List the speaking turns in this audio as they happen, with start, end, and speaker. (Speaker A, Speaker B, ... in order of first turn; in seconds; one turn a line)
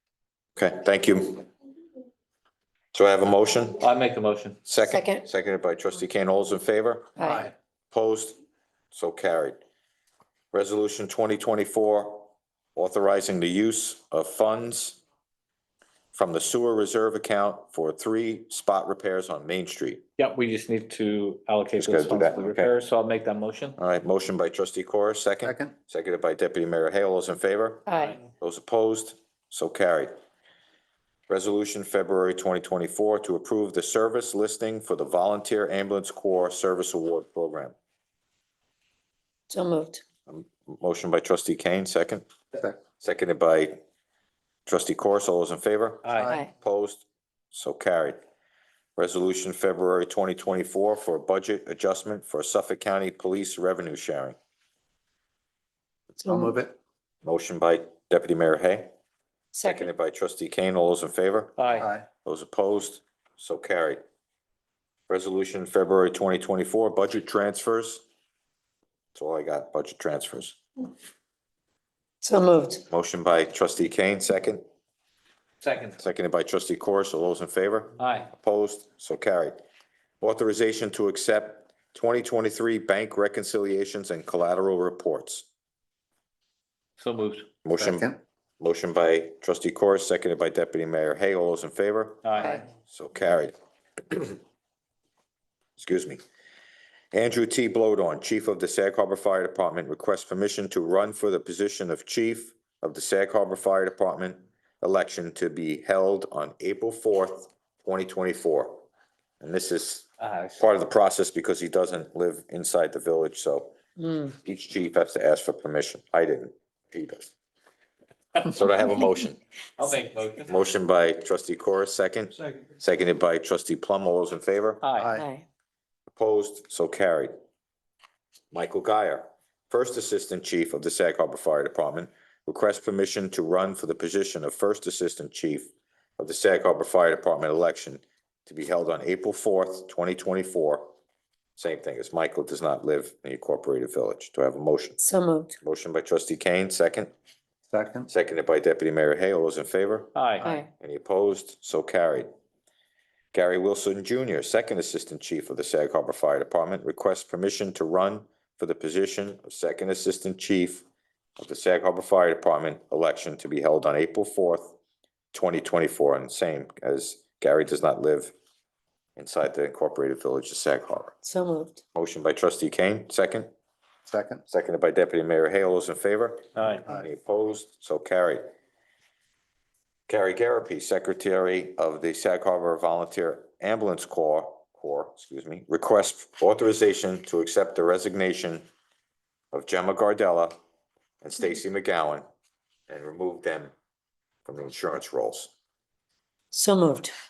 Speaker A: 0.6-1.5
Speaker A: 2.9-3.8
Speaker B: 3.8-4.6
Speaker A: 4.7-7.2
Speaker C: 4.9-5.2
Speaker C: 7.2-7.5
Speaker A: 7.9-8.4
Speaker A: 8.9-9.6
Speaker A: 10.5-15.0
Speaker A: 16.1-20.0
Speaker B: 20.2-23.8
Speaker A: 21.8-22.7
Speaker A: 23.8-30.1
Speaker D: 25.4-25.7
Speaker C: 27.9-28.2
Speaker B: 27.9-28.2
Speaker A: 31.3-37.7
Speaker C: 39.5-40.0
Speaker A: 40.3-42.3
Speaker A: 43.0-43.8
Speaker A: 44.7-48.2
Speaker B: 46.0-46.4
Speaker A: 49.0-54.4
Speaker C: 56.2-56.6
Speaker D: 56.3-56.7
Speaker A: 57.2-58.9
Speaker C: 59.5-59.9
Speaker A: 59.6-61.6
Speaker B: 61.6-61.9
Speaker D: 61.8-62.0
Speaker A: 62.2-64.0
Speaker A: 65.1-68.0
Speaker A: 69.2-70.6
Speaker C: 72.2-72.8
Speaker A: 72.9-74.6
Speaker B: 75.6-76.0
Speaker A: 76.0-79.6
Speaker B: 78.0-78.3
Speaker A: 80.2-85.5
Speaker B: 87.0-87.5
Speaker A: 87.6-93.5
Speaker D: 87.8-88.2
Speaker B: 92.2-92.6
Speaker A: 94.1-94.4
Speaker A: 95.8-96.2
Speaker A: 97.1-108.8
Speaker A: 109.4-110.1
Speaker B: 110.2-110.6
Speaker A: 110.6-113.8
Speaker C: 114.0-114.3
Speaker A: 114.3-117.3
Speaker A: 118.4-119.4
Speaker B: 119.8-120.6
Speaker A: 120.5-124.8
Speaker B: 124.8-125.2
Speaker D: 125.0-125.3
Speaker C: 125.2-125.4
Speaker A: 126.1-127.3
Speaker A: 128.5-140.9
Speaker A: 141.6-145.0
Speaker C: 145.0-145.6
Speaker A: 145.6-147.1
Speaker D: 147.7-148.1
Speaker A: 148.1-152.3
Speaker B: 150.2-150.5
Speaker C: 150.4-150.7
Speaker A: 153.3-160.8
Speaker A: 161.4-164.8
Speaker A: 165.3-168.3
Speaker A: 169.2-171.2
Speaker C: 171.2-171.8
Speaker A: 171.9-173.5
Speaker D: 174.1-174.4
Speaker A: 174.5-178.5
Speaker B: 176.6-176.8
Speaker A: 180.1-188.7
Speaker A: 189.5-190.6
Speaker A: 191.2-192.2
Speaker A: 192.9-193.7
Speaker A: 194.5-195.5
Speaker C: 196.5-197.1